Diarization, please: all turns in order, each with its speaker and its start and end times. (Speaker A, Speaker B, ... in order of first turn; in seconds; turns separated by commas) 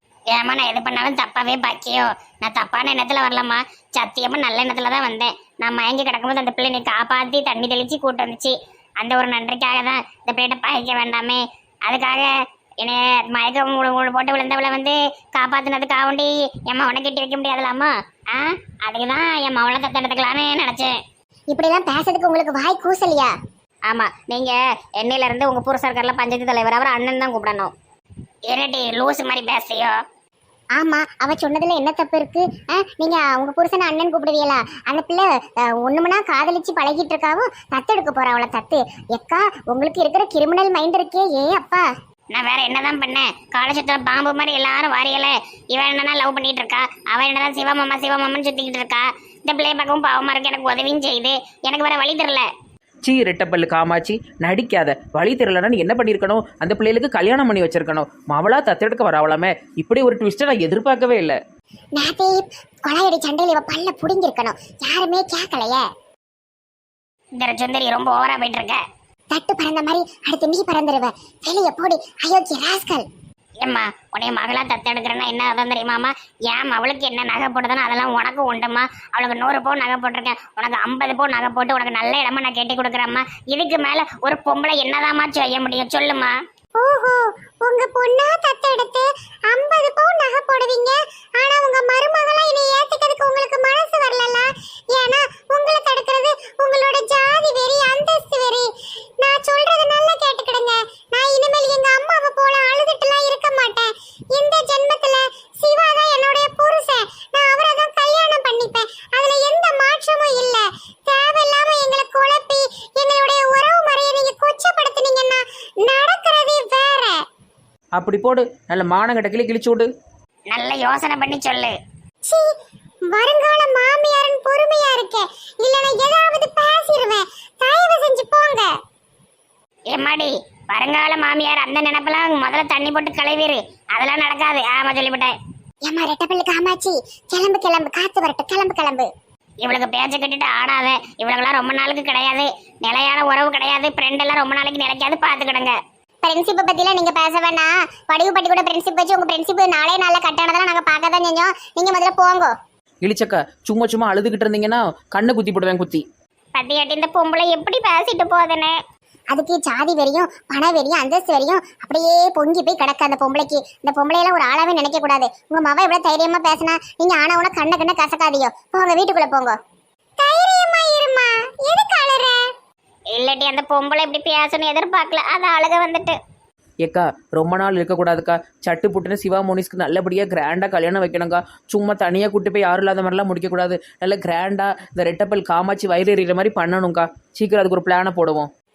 Speaker A: 0.3-20.9, Speaker B: 21.5-23.3, Speaker A: 23.9-27.7, Speaker A: 28.5-30.0, Speaker B: 30.8-41.8, Speaker A: 42.3-52.5, Speaker C: 53.0-61.4, Speaker B: 62.0-65.8, Speaker A: 67.4-68.8, Speaker B: 69.3-73.0, Speaker A: 73.6-86.3, Speaker B: 86.8-98.7, Speaker B: 99.2-117.2, Speaker C: 118.0-119.9, Speaker A: 120.5-121.7, Speaker B: 123.1-128.7, Speaker A: 129.9-135.3, Speaker B: 135.9-139.1, Speaker A: 139.6-145.8, Speaker B: 146.2-152.5, Speaker C: 153.0-156.0, Speaker A: 156.5-158.7, Speaker B: 159.3-169.5, Speaker B: 170.2-172.4, Speaker A: 173.1-176.2, Speaker C: 176.8-188.5